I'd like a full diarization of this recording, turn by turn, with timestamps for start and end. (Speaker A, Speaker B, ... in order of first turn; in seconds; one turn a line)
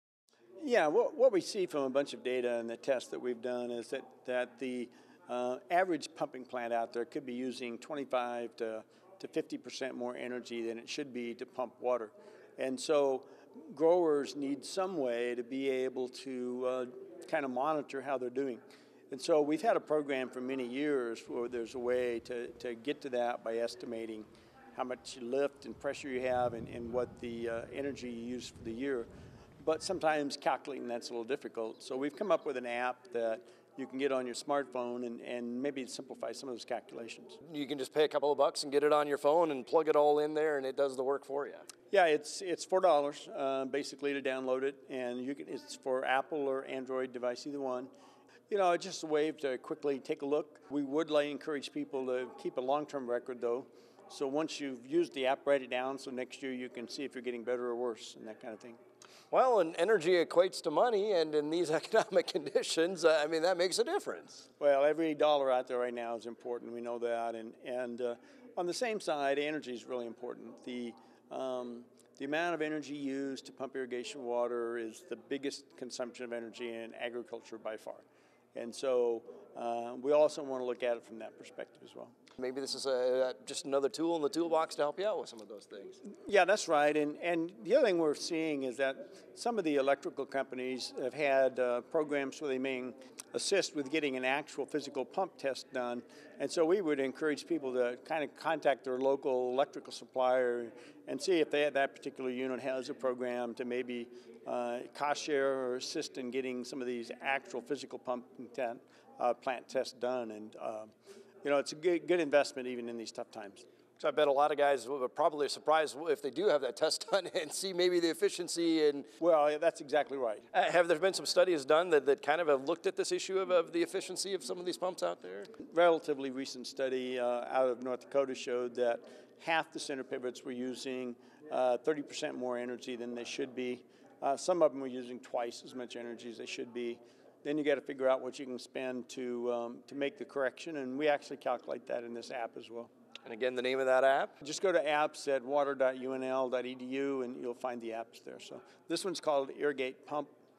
Speaker A: 0.6-29.1
Speaker A: 29.6-37.4
Speaker B: 37.4-41.6
Speaker A: 41.9-47.9
Speaker A: 48.5-58.8
Speaker B: 59.3-64.5
Speaker A: 64.6-78.0
Speaker A: 78.5-82.1
Speaker B: 82.4-86.0
Speaker A: 86.2-110.9
Speaker A: 111.4-113.6
Speaker B: 114.0-119.1
Speaker A: 119.2-120.5
Speaker B: 120.5-125.5
Speaker A: 125.6-142.9
Speaker B: 143.2-144.3
Speaker A: 144.4-150.3